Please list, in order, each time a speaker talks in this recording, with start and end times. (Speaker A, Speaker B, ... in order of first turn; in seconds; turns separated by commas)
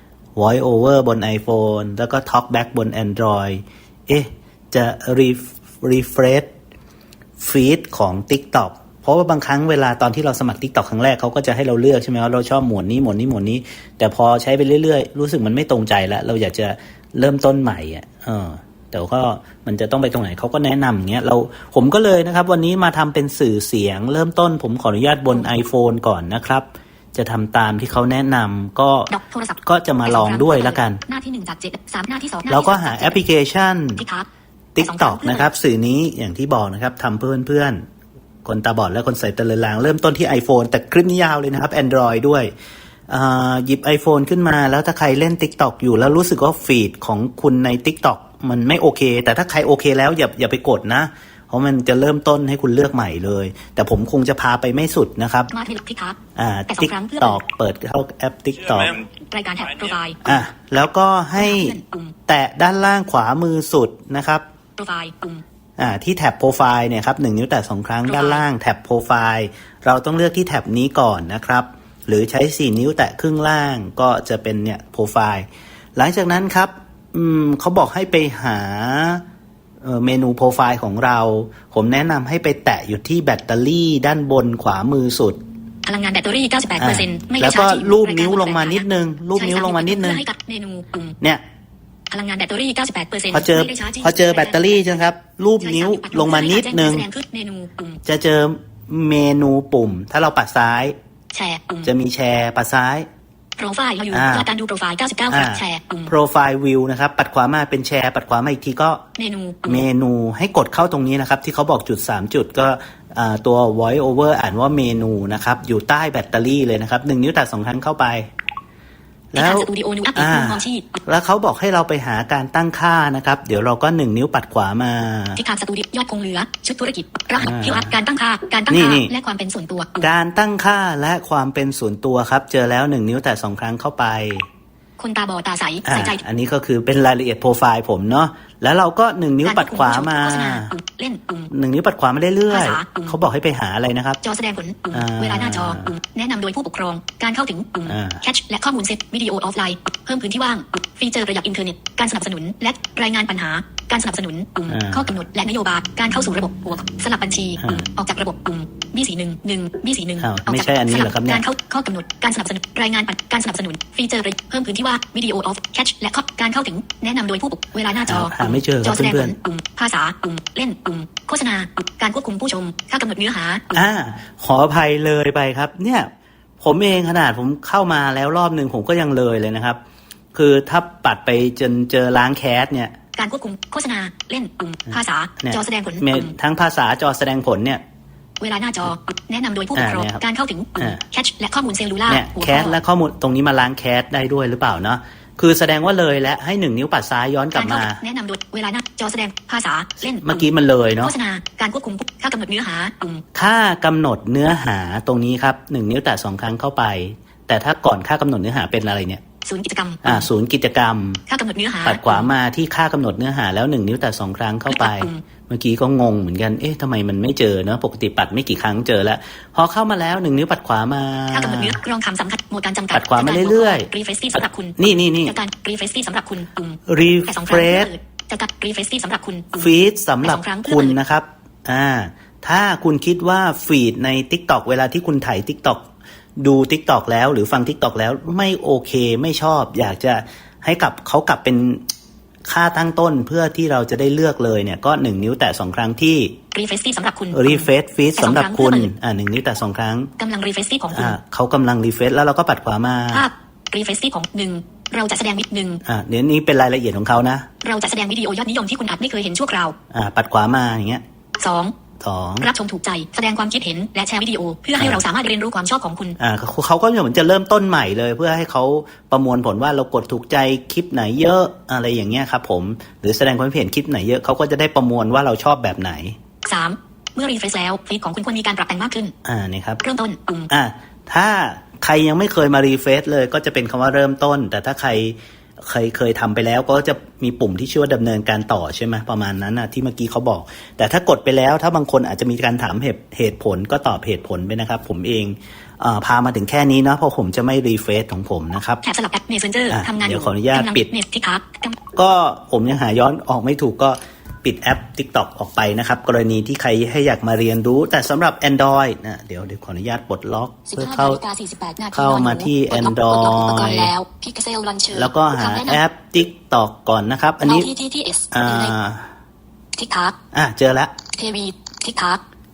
Speaker A: 0.3-6.5, Speaker A: 7.4-29.1, Speaker B: 29.1-33.2, Speaker A: 29.6-31.0, Speaker A: 32.5-34.0, Speaker B: 33.9-35.5, Speaker A: 34.8-37.8, Speaker A: 38.5-42.5, Speaker A: 43.1-55.5, Speaker B: 55.5-57.4, Speaker A: 56.4-59.1, Speaker B: 59.2-60.3, Speaker A: 60.2-61.8, Speaker B: 61.4-62.2, Speaker A: 62.3-64.4, Speaker B: 64.8-65.4, Speaker A: 65.8-79.2, Speaker B: 68.1-68.5, Speaker A: 79.8-85.4, Speaker B: 85.8-91.2, Speaker A: 86.8-90.2, Speaker B: 92.1-94.9, Speaker A: 93.3-97.1, Speaker B: 95.6-98.0, Speaker A: 98.0-101.0, Speaker B: 101.3-101.9, Speaker A: 101.8-103.1, Speaker B: 103.6-106.1, Speaker A: 104.1-104.5, Speaker A: 105.3-109.0, Speaker B: 109.2-109.9, Speaker A: 109.7-118.3, Speaker A: 119.3-125.4, Speaker B: 119.3-121.0, Speaker B: 125.3-130.1, Speaker A: 127.4-128.0, Speaker A: 128.7-129.1, Speaker A: 130.0-134.4, Speaker B: 135.0-136.2, Speaker A: 135.8-140.8, Speaker B: 139.4-141.5, Speaker A: 141.5-144.2, Speaker B: 142.5-143.2, Speaker B: 144.2-173.8, Speaker A: 144.9-145.9, Speaker A: 147.9-148.2, Speaker A: 154.7-155.1, Speaker A: 160.2-161.5, Speaker A: 168.1-169.3, Speaker A: 173.7-176.1, Speaker A: 176.6-179.8, Speaker A: 180.3-182.9, Speaker B: 183.2-186.3, Speaker A: 184.9-187.8, Speaker B: 188.4-192.8, Speaker A: 189.8-190.2, Speaker A: 192.1-198.0, Speaker B: 197.5-203.2, Speaker A: 200.2-201.2, Speaker A: 203.3-209.2, Speaker B: 209.4-210.3, Speaker A: 210.0-211.2, Speaker B: 211.3-212.3, Speaker A: 211.8-221.8, Speaker B: 214.7-215.2, Speaker B: 221.3-231.0, Speaker A: 222.9-223.9, Speaker A: 224.8-225.4, Speaker A: 226.9-227.9, Speaker A: 229.6-235.9, Speaker A: 236.4-241.8, Speaker A: 242.5-246.3, Speaker B: 246.5-248.9, Speaker A: 247.3-250.1, Speaker B: 250.2-251.2, Speaker A: 250.9-253.3, Speaker B: 253.1-255.8, Speaker A: 255.8-257.5, Speaker B: 257.6-259.8, Speaker A: 259.9-261.0, Speaker B: 261.4-261.8, Speaker A: 262.0-262.5, Speaker B: 262.4-266.2, Speaker A: 264.8-265.0, Speaker A: 266.2-276.2, Speaker B: 276.4-279.1, Speaker A: 279.2-279.8, Speaker B: 279.8-280.5, Speaker A: 280.5-298.8, Speaker B: 298.8-301.8, Speaker A: 299.7-300.9, Speaker A: 301.9-311.2, Speaker B: 310.7-315.8, Speaker A: 311.9-313.9, Speaker A: 314.9-317.7, Speaker B: 317.4-318.8, Speaker A: 318.3-319.1, Speaker B: 319.7-320.2, Speaker A: 320.3-320.9, Speaker B: 321.1-322.2